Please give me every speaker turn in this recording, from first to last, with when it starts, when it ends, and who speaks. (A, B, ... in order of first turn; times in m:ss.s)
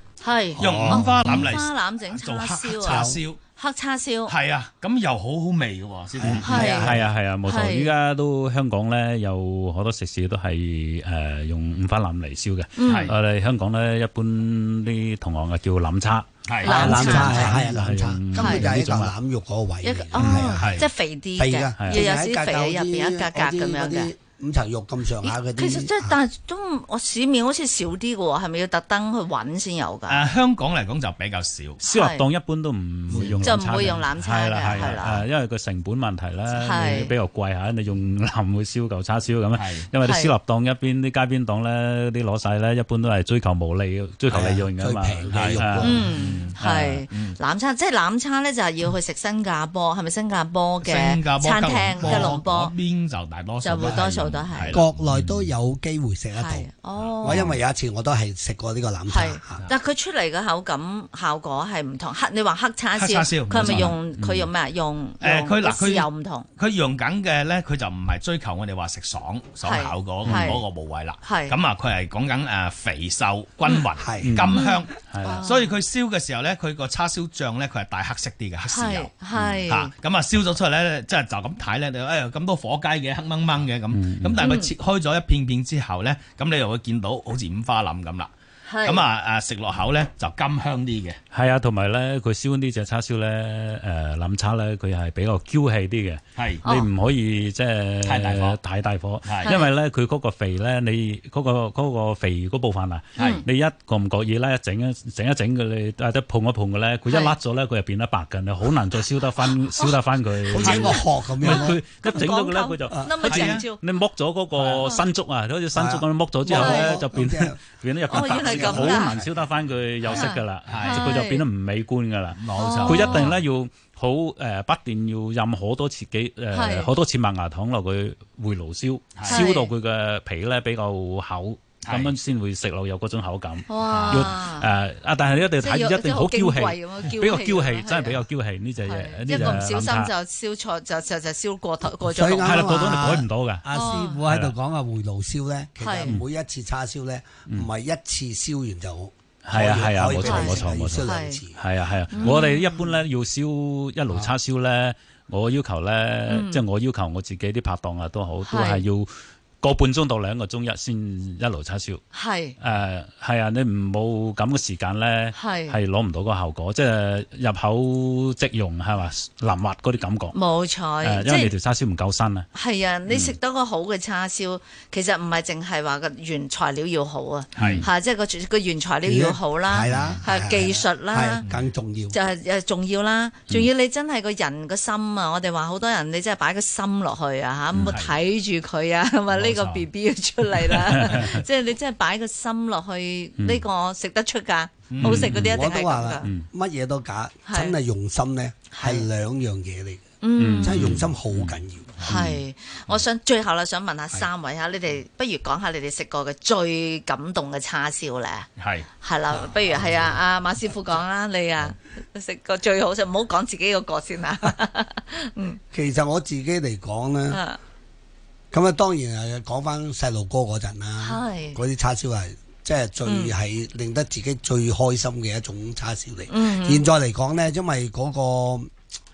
0:00.2-0:04.3 A
0:00.6-0:01.6 B
0:00.6-0:03.4 C
0:02.8-0:03.2 B
0:04.3-0:06.9 C
0:06.2-0:07.1 B
0:06.2-0:19.2 D
0:06.4-0:06.9 A
0:07.4-0:07.9 A
0:12.8-0:13.1 A
0:12.9-0:13.1 C
0:16.5-0:17.6 C
0:16.6-0:17.6 A
0:16.6-0:20.8 B
0:18.4-0:18.7 A
0:19.8-0:24.1 A
0:20.2-0:20.6 D
0:20.6-0:20.9 C
0:21.4-0:26.2 B
0:21.8-0:22.1 D
0:25.2-0:30.2 A
0:30.1-0:31.8 C
0:31.8-0:46.0 D
0:31.9-0:32.3 A
0:33.1-0:33.4 B
0:33.4-0:35.2 A
0:36.5-0:37.1 A
0:39.5-0:39.9 C
0:40.0-0:40.3 A
0:44.3-0:46.1 B
0:45.3-0:46.6 C
0:45.8-0:52.7 A
0:46.6-0:47.0 D
0:47.1-0:47.4 C
0:50.8-0:55.0 C
0:52.0-0:52.4 B
0:53.6-0:54.8 A
0:54.7-0:56.7 B
0:55.1-0:55.5 D
0:56.3-0:57.5 A
0:57.0-0:57.6 C
0:57.2-0:59.6 B
0:59.1-1:06.5 A
1:02.9-1:03.9 C
1:03.5-1:04.5 D
1:05.2-1:28.3 C
1:09.6-1:10.6 A
1:10.2-1:10.6 D
1:11.2-1:11.6 A
1:14.0-1:14.4 B
1:14.2-1:15.4 D
1:14.5-1:15.7 A
1:18.7-1:19.9 A
1:23.9-1:24.4 D
1:24.4-1:24.7 A
1:28.6-1:29.0 A
1:28.8-1:31.2 C
1:31.3-2:20.1 D
1:36.4-1:36.6 C
1:36.6-1:36.9 A
1:38.0-1:38.6 C
1:39.2-1:39.5 C
1:39.4-1:39.7 A
1:43.2-1:43.4 A
1:47.1-1:47.4 A
1:50.5-1:51.8 B
1:50.5-1:53.8 A
1:53.2-1:53.6 C
1:54.6-1:54.9 B
1:55.7-1:57.6 B
1:56.5-1:57.0 A
1:58.1-1:59.2 A
1:58.2-1:59.3 B
2:00.0-2:01.2 C
2:00.1-2:01.4 A
2:02.3-2:03.4 C
2:02.6-2:03.3 A
2:06.5-2:06.9 A
2:09.2-2:09.5 C
2:09.2-2:09.7 A
2:11.8-2:12.1 C
2:13.7-2:14.7 A
2:13.9-2:14.4 C
2:15.6-2:18.2 A
2:18.8-2:23.0 A
2:21.9-2:31.6 B
2:22.4-2:23.7 D
2:23.7-2:24.2 A
2:24.2-2:24.5 D
2:25.8-2:26.2 A
2:29.4-2:39.1 D
2:30.2-2:31.4 A
2:32.1-2:32.8 A
2:36.3-2:36.6 A
2:38.4-2:38.8 A
2:39.6-2:42.0 D
2:42.1-2:42.6 A
2:42.6-2:50.4 D
2:45.3-2:45.8 A
2:50.3-2:51.5 A
2:51.0-2:52.5 D
2:52.5-3:01.4 A
2:53.1-2:53.4 D
2:57.6-2:57.9 C
2:57.6-2:57.9 D
2:59.0-3:02.2 B
2:59.9-3:00.2 C
3:02.1-3:16.3 A
3:07.8-3:08.2 C
3:09.3-3:09.9 C
3:10.7-3:11.4 C
3:10.9-3:11.3 D
3:13.4-3:13.6 D
3:14.9-3:15.3 C
3:15.0-3:15.6 D
3:15.3-3:20.0 B
3:17.4-3:17.8 A
3:18.7-3:19.0 A
3:20.2-3:20.9 A
3:20.4-3:21.5 D
3:20.6-3:22.3 B
3:20.8-3:21.0 C
3:22.0-3:22.3 C
3:22.0-3:28.5 A
3:28.6-3:28.9 C
3:29.0-3:35.6 A
3:29.3-3:30.2 B
3:35.7-3:37.4 B
3:37.3-3:37.6 A
3:38.5-3:48.7 B
3:41.0-3:41.6 A
3:43.0-3:43.3 A
3:46.3-3:46.8 A